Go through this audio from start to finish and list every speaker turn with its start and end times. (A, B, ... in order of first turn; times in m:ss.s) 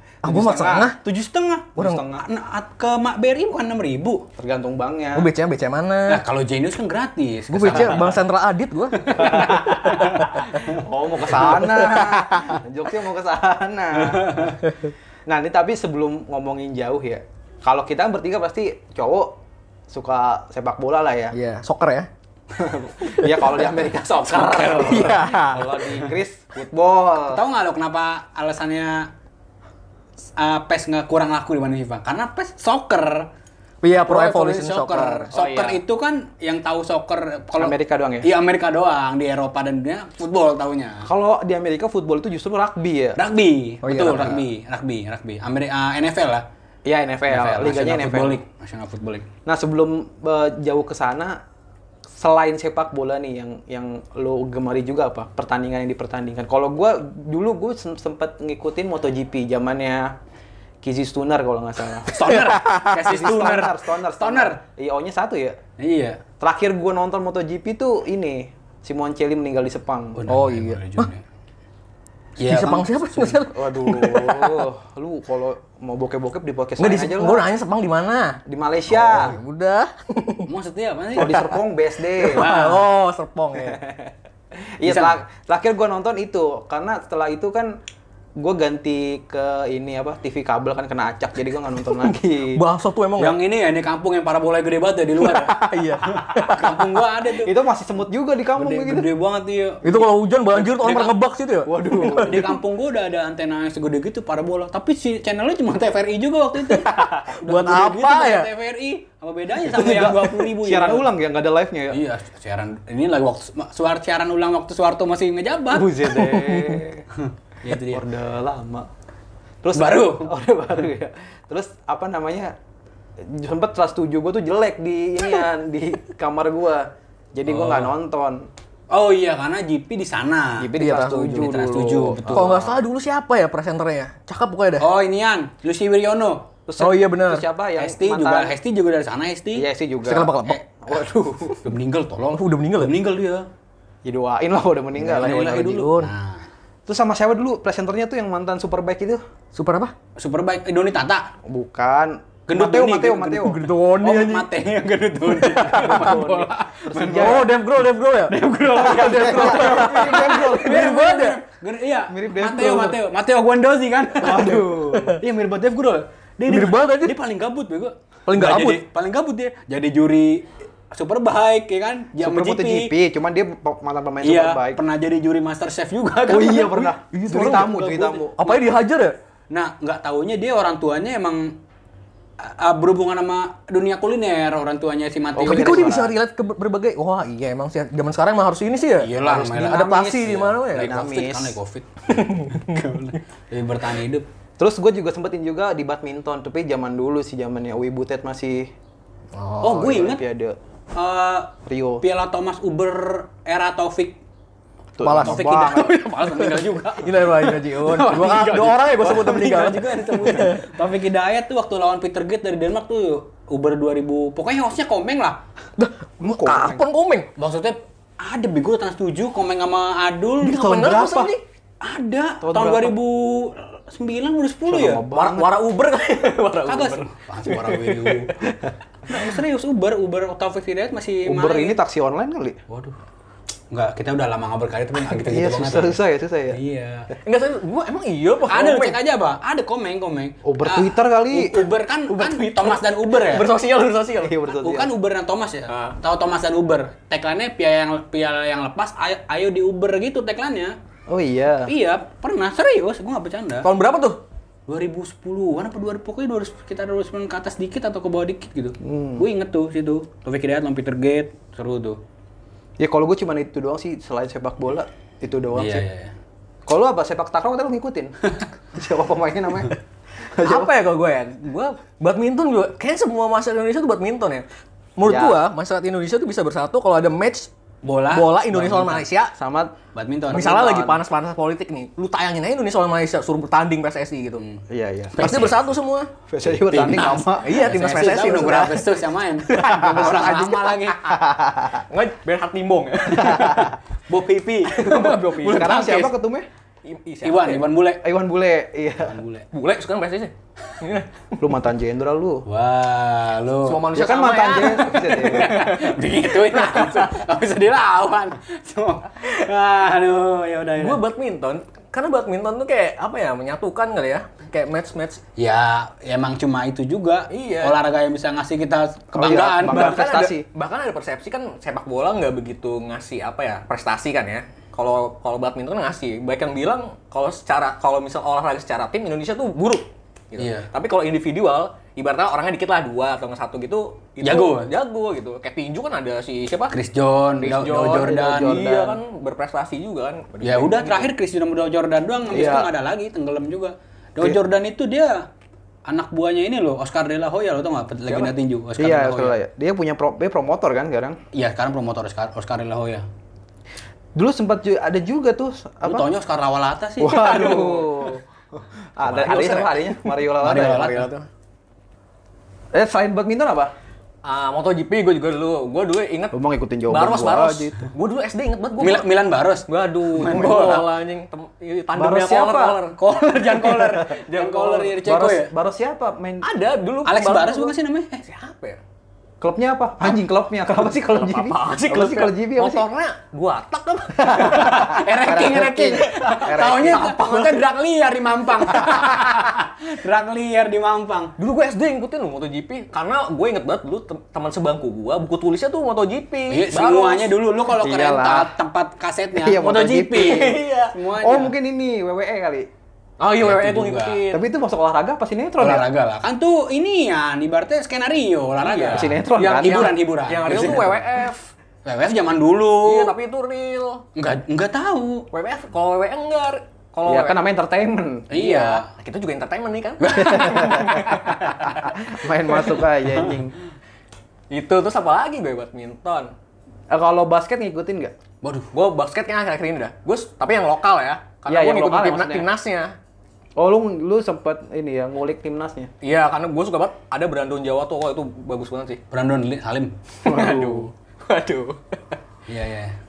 0:00.2-0:01.0 A
0:00.2-0:00.9 B
0:01.0-0:04.2 C
0:01.8-0:02.2 B
0:04.4-0:05.3 B
0:05.2-0:06.2 A
0:06.1-0:08.2 C
0:07.5-0:10.3 A
0:09.1-0:10.3 C
0:09.2-0:14.6 B
0:11.5-0:12.6 A
0:14.0-0:14.6 C
0:15.3-0:19.4 B
0:19.9-0:21.3 B
0:21.3-0:22.1 A
0:22.5-0:27.4 B
0:23.0-0:23.6 A
0:24.3-0:25.1 C
0:24.7-0:25.6 A
0:27.3-0:29.1 C
0:30.4-0:33.3 C
0:33.8-0:35.3 A
0:34.1-0:41.1 C
0:35.3-0:35.8 B
0:37.6-0:38.3 B
0:41.0-0:43.2 B
0:43.2-0:46.5 C
0:43.8-0:44.4 A
0:43.9-0:44.4 B
0:46.9-0:48.4 B
0:47.3-0:49.3 C
0:49.5-0:51.4 B
0:52.1-1:00.2 B
1:00.8-1:05.6 B
1:02.1-1:04.6 C
1:02.3-1:03.0 A
1:05.8-1:06.2 C
1:06.4-1:10.2 B
1:10.2-1:11.2 C
1:10.3-1:11.1 A
1:12.4-1:13.4 C
1:12.4-1:14.6 A
1:13.5-1:17.4 B
1:16.8-1:18.4 A
1:18.5-1:19.4 B
1:18.9-1:20.5 A
1:20.5-1:21.4 C
1:21.1-1:22.7 B
1:21.2-1:21.6 A
1:22.2-1:23.8 A
1:22.4-1:22.8 C
1:23.6-1:27.7 B
1:24.8-1:25.2 C
1:28.4-1:32.6 B
1:32.5-1:33.4 A
1:33.2-1:37.5 C
1:35.2-1:36.9 A
1:37.4-1:39.1 B
1:38.6-1:40.0 C
1:39.8-1:42.5 A
1:40.5-1:41.2 C
1:41.7-1:42.6 B
1:42.2-1:51.1 C
1:46.6-1:48.5 A
1:49.6-1:52.0 B
1:51.9-1:55.9 C
1:55.7-1:57.0 B
1:56.0-1:56.8 A
1:57.2-1:58.0 C
1:57.7-1:58.9 B
1:59.6-2:02.6 B
1:59.7-2:00.3 C
2:03.2-2:08.5 B
2:07.5-2:07.9 C
2:08.9-2:12.7 C
2:10.6-2:12.8 B
2:10.6-2:11.4 A
2:12.3-2:14.9 A
2:14.8-2:16.5 C
2:16.7-2:18.6 B
2:16.8-2:17.5 A
2:17.8-2:19.6 C
2:19.5-2:21.7 B
2:20.0-2:20.6 A
2:20.4-2:20.8 C
2:21.6-2:23.5 C
2:22.3-2:22.9 A
2:24.0-2:25.8 B
2:25.0-2:26.1 A
2:25.1-2:26.5 C
2:26.9-2:29.2 B
2:29.5-2:29.9 A
2:30.2-2:31.3 C
2:31.5-2:33.6 B
2:32.5-2:37.4 C
2:33.4-2:34.5 A
2:35.4-2:36.2 A
2:35.7-2:37.5 B
2:37.1-2:41.4 A
2:38.3-2:44.6 C
2:38.8-2:41.1 B
2:42.1-2:43.0 B
2:44.2-2:45.2 B
2:44.2-2:45.2 A
2:45.2-2:52.9 C
2:46.5-2:47.2 A
2:48.3-2:48.8 A
2:52.2-2:54.8 B
2:54.2-2:56.9 C
2:56.3-2:58.4 B
2:57.1-2:59.2 A
2:57.5-2:58.6 C
2:59.5-3:01.6 C
3:02.4-3:05.9 C
3:05.3-3:06.2 B
3:05.4-3:10.9 A
3:09.0-3:14.3 C
3:10.8-3:11.6 B
3:12.1-3:12.8 A
3:14.6-3:18.7 B
3:19.4-3:20.1 A
3:19.6-3:20.2 C
3:19.8-3:20.6 B
3:20.9-3:24.2 C
3:21.7-3:22.0 B
3:25.0-3:25.9 B
3:25.0-3:25.4 A
3:25.2-3:35.4 C
3:26.2-3:30.7 A
3:35.8-3:37.3 A
3:36.2-3:36.8 B
3:37.4-3:41.3 C
3:40.4-3:41.4 A
3:40.8-3:41.3 B
3:41.8-3:45.0 C
3:42.4-3:42.9 B
3:44.7-3:45.5 B
3:45.1-3:48.4 A
3:46.7-3:48.4 C
3:49.1-3:51.8 C
3:51.2-3:52.6 B
3:52.7-3:53.0 C
3:53.7-3:56.0 C
3:55.2-3:56.6 B
3:56.5-3:57.1 C
3:57.2-3:59.0 A
3:58.5-4:03.5 C
4:00.4-4:01.6 B
4:02.1-4:04.4 A
4:04.2-4:04.9 B
4:04.6-4:10.8 C
4:05.7-4:06.0 A
4:11.1-4:11.7 B
4:11.7-4:13.7 C
4:13.6-4:14.2 A
4:14.7-4:22.0 C
4:18.8-4:19.3 B
4:22.8-4:25.8 B
4:25.5-4:26.1 C
4:26.7-4:28.2 B
4:28.7-4:29.8 B
4:30.3-4:30.7 B
4:30.4-4:34.5 A
4:35.0-4:37.5 A
4:35.0-4:35.4 B
4:37.8-4:39.1 C
4:38.1-4:39.4 A
4:39.4-4:39.8 B
4:39.9-4:40.7 C
4:40.3-4:44.4 A
4:40.4-4:41.0 B
4:44.7-4:45.2 B
4:45.1-4:45.7 C
4:45.2-4:46.1 A
4:46.3-4:47.6 B
4:46.4-4:51.1 C
4:47.4-4:48.9 A
4:49.4-4:50.9 A
4:49.6-4:51.8 B
4:51.8-4:53.7 A
4:53.2-4:53.8 B
4:54.1-4:56.2 C
4:54.7-4:55.7 A
4:55.4-4:56.5 B
4:56.8-4:57.6 A
4:57.2-4:58.0 C
4:58.0-4:59.2 B
4:59.1-4:59.5 C
4:59.5-5:01.4 A
5:01.4-5:02.4 B
5:02.5-5:03.9 C
5:03.6-5:07.1 A
5:03.9-5:05.6 B
5:04.8-5:11.0 C
5:10.8-5:15.2 A
5:15.4-5:20.0 C
5:17.3-5:17.8 A
5:19.1-5:20.5 B
5:19.2-5:36.8 A
5:30.4-5:30.7 C
5:34.2-5:34.7 C
5:36.7-5:38.6 C
5:37.4-5:41.1 A
5:37.8-5:39.0 B
5:40.4-5:45.3 C
5:42.3-5:42.7 B
5:45.9-5:49.4 C
5:48.8-5:51.2 B
5:51.3-5:53.0 C
5:54.2-5:56.1 B
5:55.8-5:58.1 C
5:57.0-6:01.0 B
5:59.0-6:01.2 A
6:00.4-6:01.1 C
6:02.7-6:03.7 B
6:04.2-6:09.1 A
6:06.3-6:07.9 B
6:08.8-6:10.9 C
6:09.7-6:15.0 A
6:12.0-6:12.8 B
6:13.0-6:15.5 C
6:15.0-6:16.5 B
6:16.4-6:18.8 A
6:17.1-6:18.2 C
6:19.4-6:22.8 B
6:21.0-6:25.1 A
6:24.2-6:27.1 B
6:24.5-6:31.3 C
6:26.0-6:27.7 A
6:31.4-6:37.3 A
6:36.5-6:41.5 C
6:37.8-6:38.5 B
6:39.4-6:40.6 B
6:40.2-6:41.0 A
6:41.2-6:42.7 B
6:43.2-6:44.4 A
6:43.4-6:44.2 C
6:44.3-6:45.9 B
6:45.6-6:51.0 C
6:48.6-6:51.5 A
6:48.9-6:50.0 B
6:51.8-6:53.1 C
6:52.8-6:54.0 A
6:54.2-6:55.3 C
6:55.3-6:57.4 A
6:57.1-6:58.5 B
6:58.3-6:58.9 C
6:58.4-7:02.0 A
7:00.0-7:01.7 C
7:00.2-7:01.2 B
7:01.7-7:03.6 B
7:04.5-7:06.3 A
7:06.9-7:08.2 B
7:08.4-7:08.7 C
7:08.7-7:13.0 A
7:11.5-7:12.5 B
7:13.6-7:15.9 B
7:16.0-7:19.0 A
7:19.1-7:20.6 C
7:20.2-7:22.2 A
7:20.3-7:20.8 B
7:22.5-7:23.0 C